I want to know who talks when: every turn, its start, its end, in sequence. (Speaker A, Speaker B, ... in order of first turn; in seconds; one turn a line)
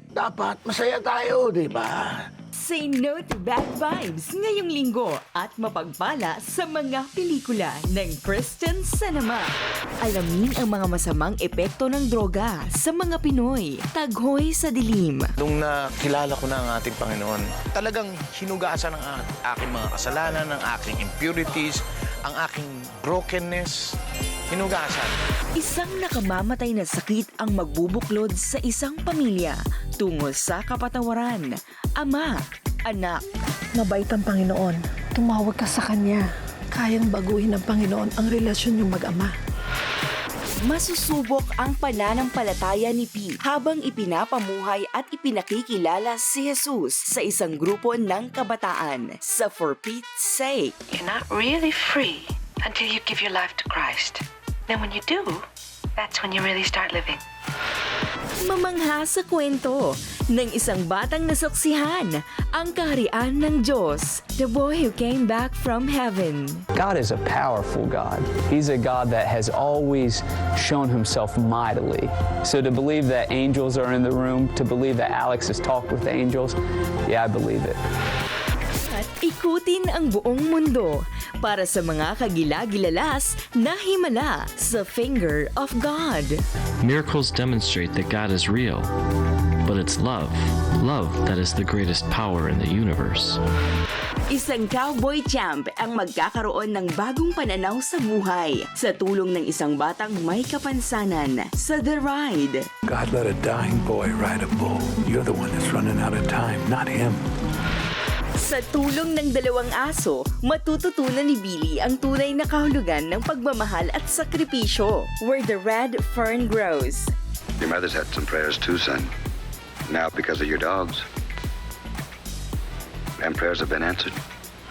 Speaker A: 0.1-2.2
Speaker B: 2.5-9.5
Speaker B: 10.0-15.3
Speaker C: 15.4-23.8
Speaker C: 24.5-25.2
Speaker B: 25.6-33.2
Speaker D: 33.8-39.3
Speaker B: 40.6-50.8
Speaker E: 50.9-55.5
Speaker E: 56.0-57.2
Speaker B: 58.4-66.7
Speaker F: 66.7-76.5
Speaker F: 77.1-77.8
Speaker B: 78.8-86.4
Speaker G: 86.8-88.9
Speaker G: 89.7-93.4
Speaker B: 94.3-102.7
Speaker H: 102.9-107.2
Speaker B: 108.4-117.1
Speaker I: 117.6-119.1
Speaker I: 119.9-121.0
Speaker I: 123.2-124.2